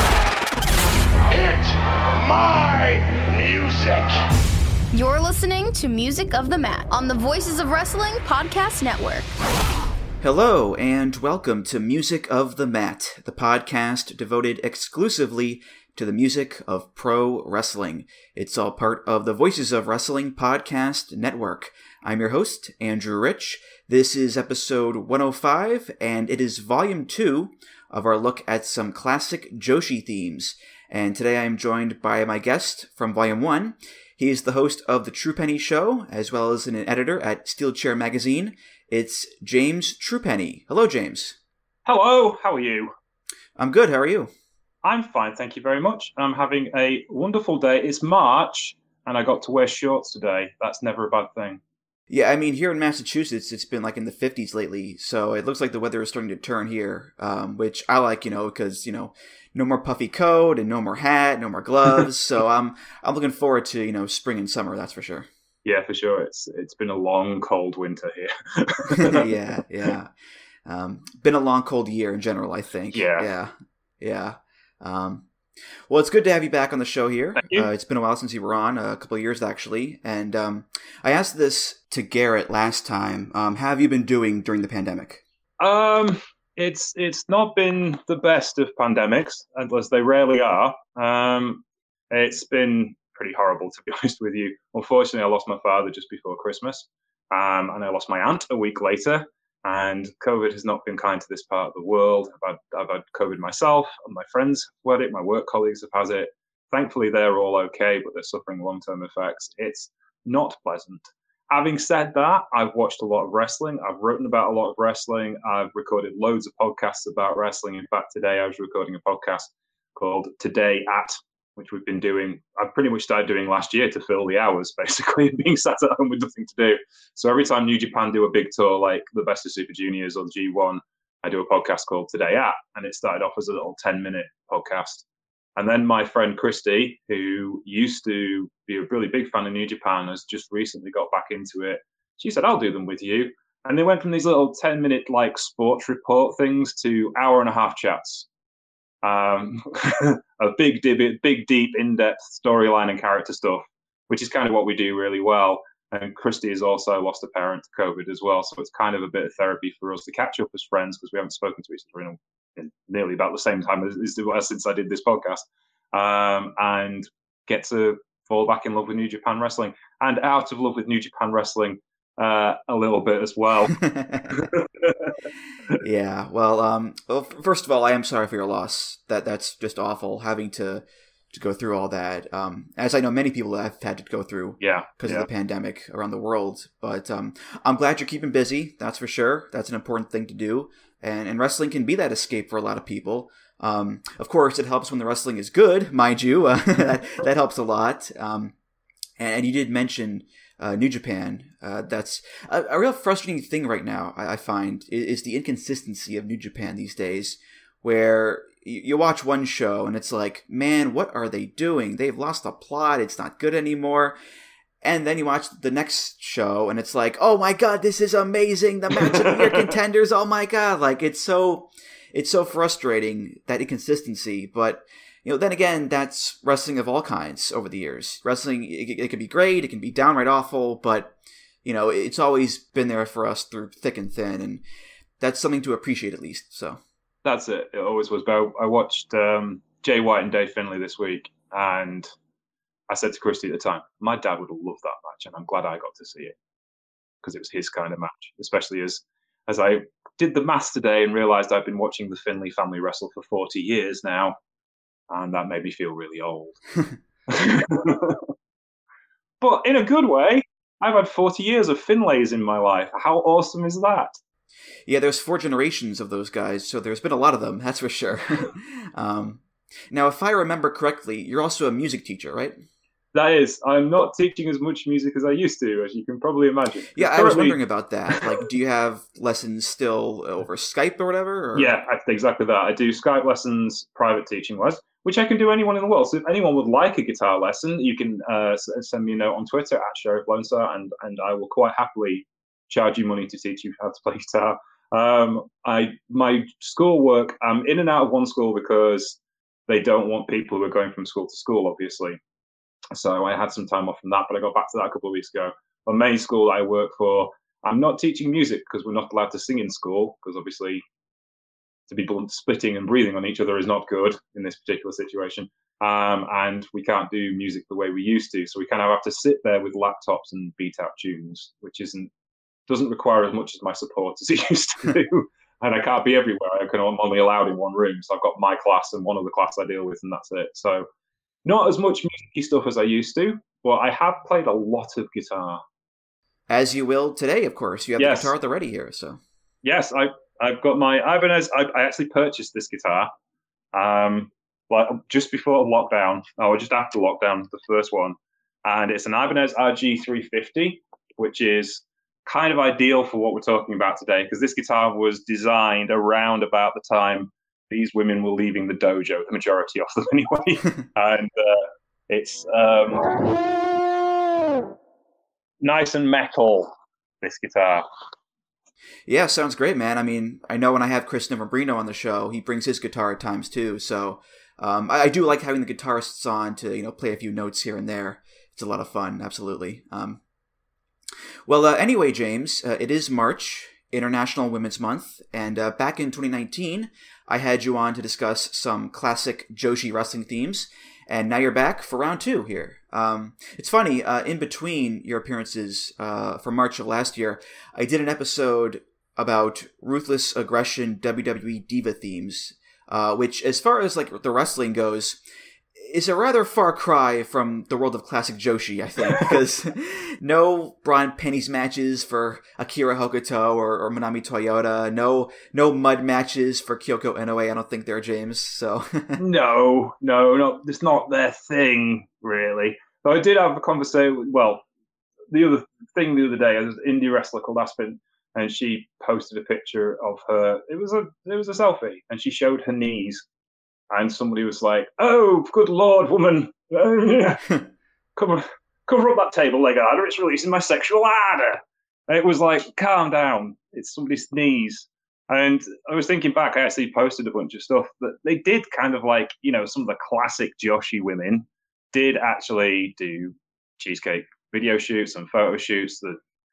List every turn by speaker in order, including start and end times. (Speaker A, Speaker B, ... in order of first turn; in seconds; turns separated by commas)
Speaker A: 1.3-4.1, Speaker B: 4.9-9.3, Speaker C: 10.2-41.4, Speaker D: 41.9-42.9, Speaker C: 43.6-44.3, Speaker D: 44.8-51.6, Speaker C: 52.1-65.3, Speaker D: 65.6-69.2, Speaker C: 68.9-70.1, Speaker C: 70.6-75.3, Speaker D: 72.9-73.3, Speaker C: 75.9-85.2, Speaker D: 77.3-77.7, Speaker D: 85.6-135.0, Speaker D: 135.6-148.3, Speaker D: 149.0-173.8, Speaker C: 173.7-174.5, Speaker D: 174.3-175.1, Speaker C: 175.8-198.5, Speaker D: 184.6-185.3, Speaker C: 199.2-214.2, Speaker C: 214.8-234.6, Speaker C: 235.2-236.8, Speaker D: 237.2-242.1, Speaker D: 242.9-246.3, Speaker D: 247.2-254.3, Speaker D: 255.1-256.6, Speaker D: 257.3-258.2, Speaker D: 259.4-264.2, Speaker C: 264.9-272.6, Speaker D: 273.1-277.6, Speaker C: 276.9-281.7, Speaker D: 281.5-302.2, Speaker D: 302.9-310.8, Speaker D: 311.9-322.1, Speaker D: 322.7-330.9, Speaker D: 331.4-335.6, Speaker C: 336.5-339.2, Speaker D: 338.0-338.3, Speaker D: 339.6-343.1, Speaker D: 343.7-363.3, Speaker D: 365.6-366.7, Speaker D: 367.2-367.8, Speaker C: 369.1-380.2, Speaker C: 381.5-405.2, Speaker C: 405.8-419.2, Speaker D: 419.2-424.6, Speaker D: 425.3-433.2, Speaker D: 433.9-437.5, Speaker D: 438.1-456.2